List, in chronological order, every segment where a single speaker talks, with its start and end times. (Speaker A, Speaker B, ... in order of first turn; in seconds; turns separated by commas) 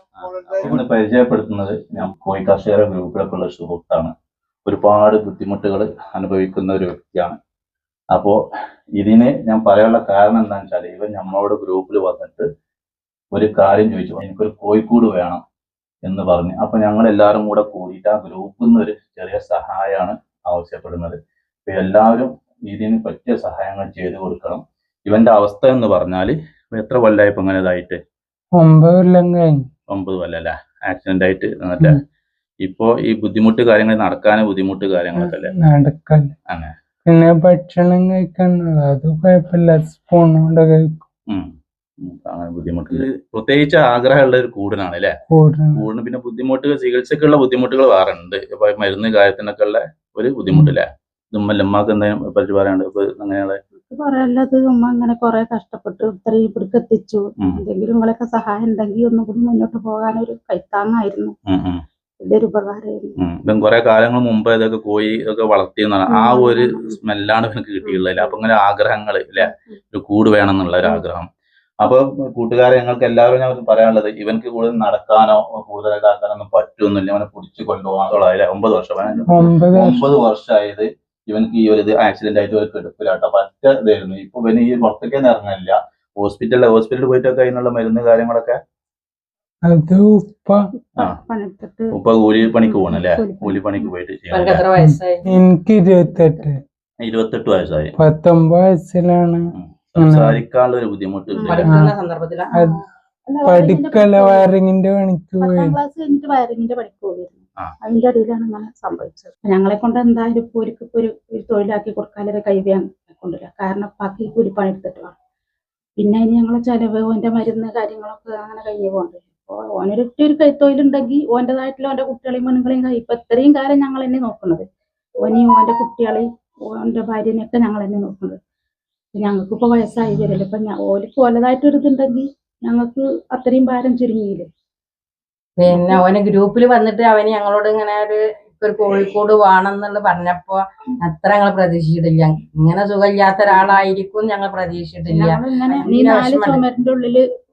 Speaker A: 0.1-4.1, Speaker A: 4.7-7.4, Speaker A: 8.1-8.4, Speaker A: 9.0-12.5, Speaker A: 13.3-15.4, Speaker A: 16.0-28.0, Speaker B: 28.6-29.6, Speaker A: 29.9-32.0, Speaker A: 32.6-35.5, Speaker B: 35.2-36.3, Speaker B: 37.1-41.0, Speaker A: 42.0-45.1, Speaker B: 45.3-45.8, Speaker A: 45.7-53.6, Speaker C: 53.8-61.3, Speaker A: 61.5-61.8, Speaker C: 62.2-63.1, Speaker A: 63.2-71.3, Speaker C: 66.1-67.0, Speaker C: 67.8-68.4, Speaker C: 69.4-69.7, Speaker A: 71.8-88.6, Speaker B: 79.3-80.0, Speaker B: 89.7-90.6, Speaker C: 90.8-91.9, Speaker A: 91.9-94.6, Speaker C: 92.6-93.9, Speaker D: 94.3-95.3, Speaker B: 94.8-96.5, Speaker C: 96.1-96.5, Speaker A: 97.0-97.9, Speaker B: 98.0-99.4, Speaker A: 99.5-101.7, Speaker B: 100.0-100.4, Speaker C: 101.3-101.7, Speaker D: 101.4-102.5, Speaker B: 101.7-101.9, Speaker C: 103.3-104.6, Speaker B: 103.5-105.8, Speaker C: 105.4-115.1, Speaker C: 116.0-124.7, Speaker C: 125.2-126.2, Speaker C: 126.8-128.4, Speaker C: 129.2-134.5, Speaker D: 135.6-146.6, Speaker C: 135.7-136.0, Speaker C: 145.1-147.2